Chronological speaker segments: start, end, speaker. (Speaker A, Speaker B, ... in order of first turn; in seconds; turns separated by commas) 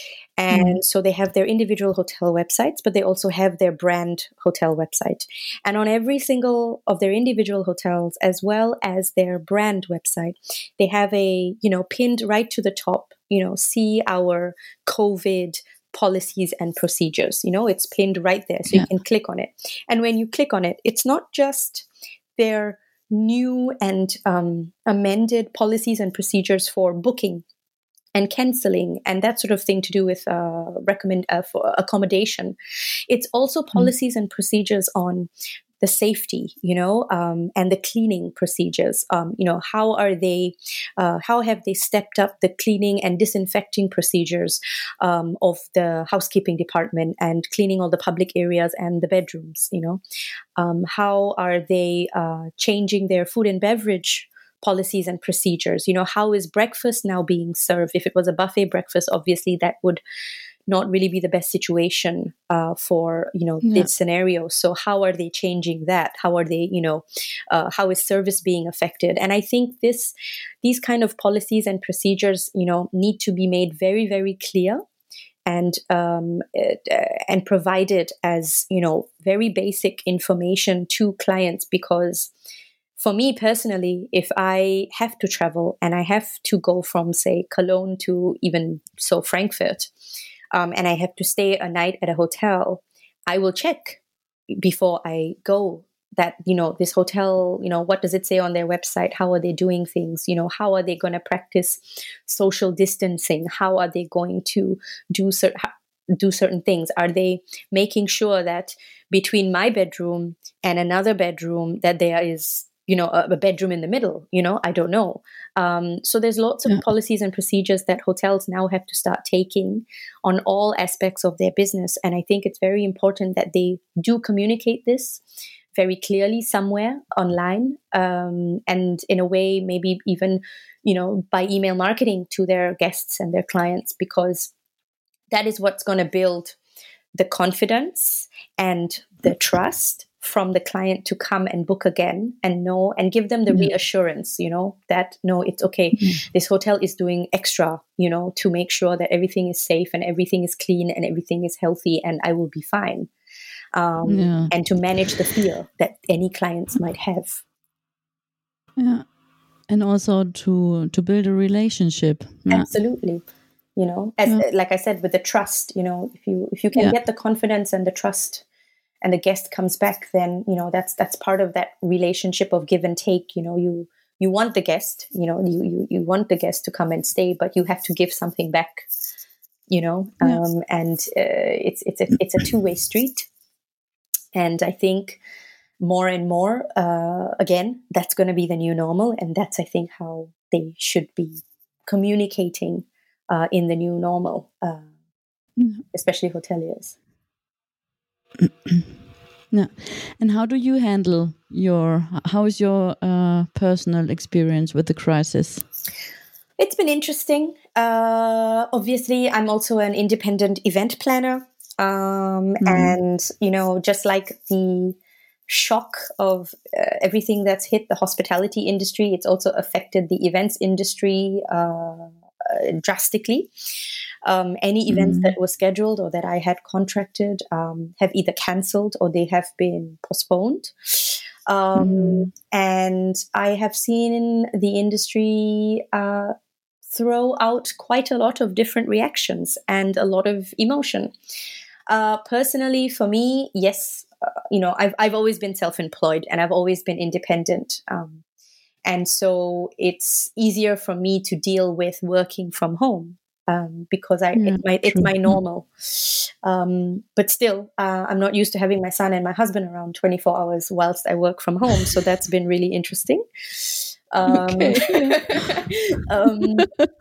Speaker A: 0.4-27.4, Speaker B: 0.5-0.8, Speaker A: 28.1-32.5, Speaker A: 33.1-35.3, Speaker A: 35.8-50.0, Speaker A: 50.6-60.0, Speaker A: 60.7-74.8, Speaker B: 63.6-63.9, Speaker A: 75.5-82.3, Speaker A: 83.0-89.9, Speaker A: 90.5-94.0, Speaker A: 94.6-125.2, Speaker A: 125.7-134.5, Speaker A: 135.3-136.6, Speaker A: 137.1-153.1, Speaker B: 146.0-146.2, Speaker A: 153.7-157.4, Speaker B: 154.1-155.1, Speaker B: 158.8-159.1, Speaker B: 159.7-162.7, Speaker A: 162.5-163.2, Speaker A: 163.8-168.4, Speaker A: 169.0-178.9, Speaker A: 179.7-183.3, Speaker A: 184.3-185.2, Speaker A: 185.8-194.9, Speaker B: 195.6-195.8, Speaker A: 195.9-196.9, Speaker B: 198.4-198.9, Speaker B: 199.5-205.7, Speaker A: 206.6-223.5, Speaker B: 212.6-212.9, Speaker A: 224.2-236.3, Speaker B: 224.9-225.3, Speaker B: 231.8-232.3, Speaker A: 236.9-241.1, Speaker A: 241.9-248.2, Speaker A: 248.8-266.7, Speaker B: 254.3-255.4, Speaker B: 264.3-266.9